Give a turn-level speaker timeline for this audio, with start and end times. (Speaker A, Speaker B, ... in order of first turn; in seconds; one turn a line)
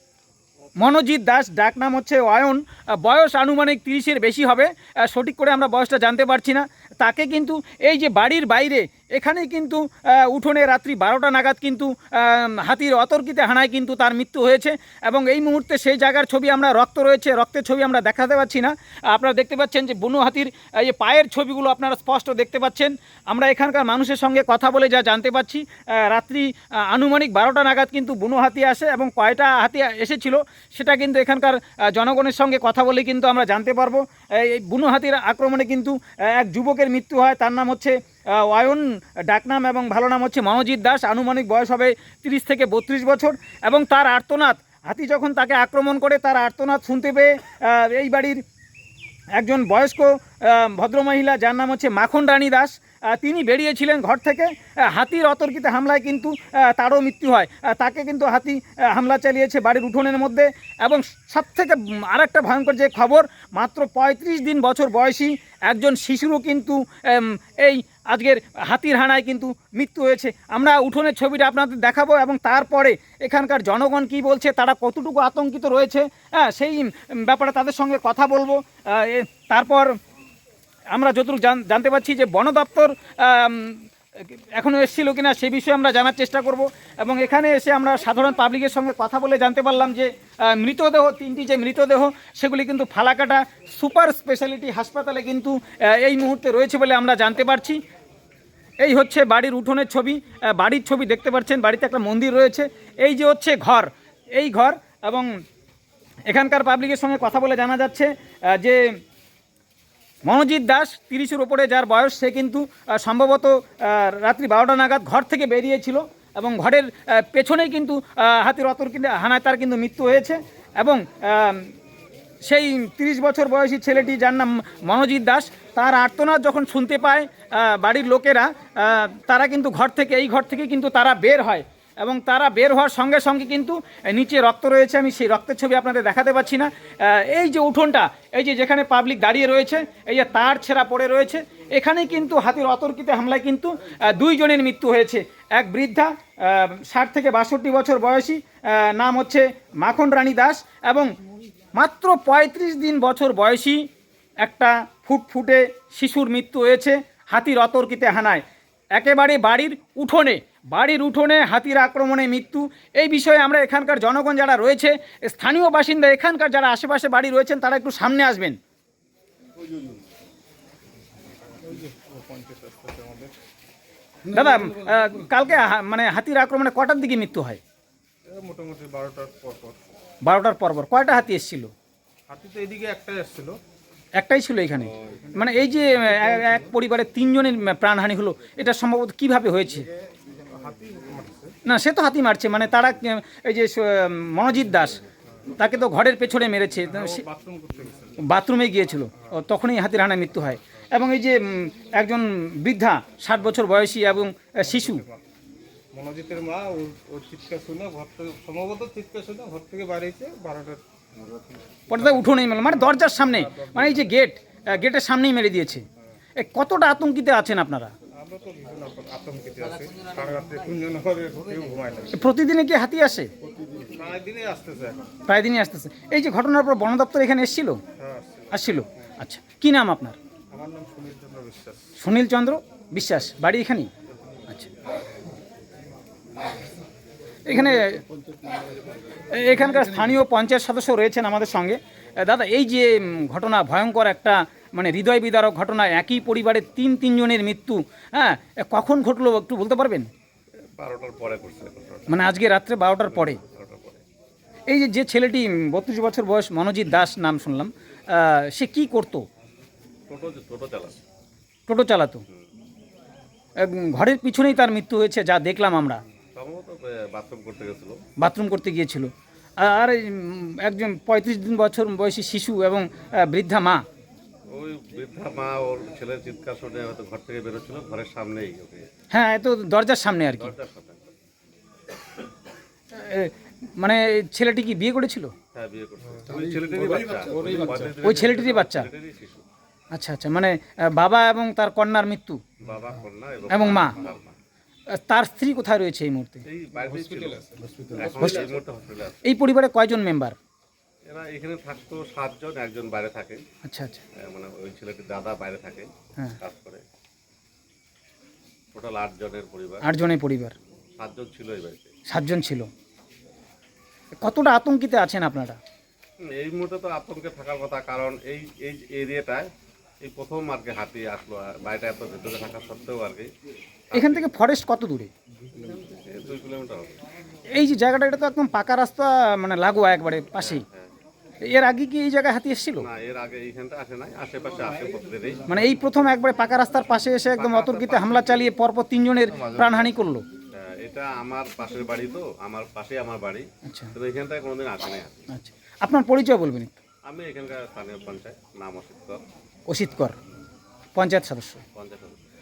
Speaker A: 0.8-48.4
Speaker A: 49.4-80.0
Speaker A: 80.9-97.8
Speaker A: 98.8-105.3
Speaker A: 106.3-109.0
Speaker A: 110.2-121.7
Speaker A: 122.5-151.1
Speaker A: 151.8-153.8
Speaker A: 154.4-158.4
Speaker A: 158.9-168.6
Speaker B: 171.5-173.3
Speaker A: 174.3-177.6
Speaker B: 178.3-179.8
Speaker A: 180.2-181.7
Speaker B: 182.3-183.6
Speaker A: 184.2-189.9
Speaker B: 185.3-186.7
Speaker B: 190.4-191.5
Speaker A: 191.7-197.2
Speaker B: 196.9-198.2
Speaker A: 198.2-205.1
Speaker B: 204.6-205.2
Speaker B: 205.9-210.8
Speaker A: 211.9-215.8
Speaker B: 211.9-214.1
Speaker A: 216.4-217.9
Speaker B: 218.1-222.2
Speaker A: 222.1-223.3
Speaker B: 223.8-225.1
Speaker A: 225.3-227.8
Speaker B: 228.0-228.8
Speaker A: 228.5-230.2
Speaker B: 230.5-231.9
Speaker A: 232.0-233.9
Speaker A: 237.5-238.0
Speaker A: 239.2-250.1
Speaker C: 250.8-252.3
Speaker A: 252.1-253.4
Speaker C: 253.1-254.0
Speaker A: 254.7-259.2
Speaker C: 260.1-261.0
Speaker A: 261.7-262.2
Speaker A: 263.6-266.0
Speaker C: 266.4-268.0
Speaker A: 268.2-273.8
Speaker C: 274.5-278.9
Speaker A: 279.1-280.5
Speaker C: 280.3-281.1
Speaker A: 282.9-285.3
Speaker C: 285.5-289.4
Speaker B: 286.1-288.1
Speaker A: 288.0-288.9
Speaker A: 289.9-292.4
Speaker C: 292.6-294.4
Speaker A: 293.5-294.0
Speaker A: 294.9-296.4
Speaker C: 296.4-297.4
Speaker B: 296.8-298.3
Speaker C: 297.9-299.2
Speaker A: 298.2-298.4
Speaker A: 299.2-300.4
Speaker C: 301.1-303.4
Speaker A: 303.6-304.0
Speaker C: 304.1-306.8
Speaker C: 308.7-309.8
Speaker A: 309.8-310.6
Speaker C: 311.0-311.9
Speaker A: 312.1-312.7
Speaker A: 314.2-315.6
Speaker C: 316.2-323.3
Speaker C: 323.9-324.3
Speaker A: 323.9-325.1
Speaker C: 325.5-326.9
Speaker A: 327.5-330.6
Speaker C: 330.4-330.9
Speaker A: 331.4-332.9
Speaker C: 332.8-335.5
Speaker A: 335.5-340.2
Speaker C: 337.4-338.5
Speaker C: 339.3-339.9
Speaker C: 340.5-345.3
Speaker A: 343.6-343.9
Speaker A: 345.3-346.7
Speaker C: 347.1-349.2
Speaker A: 349.7-350.2
Speaker A: 350.9-351.6
Speaker C: 351.8-352.2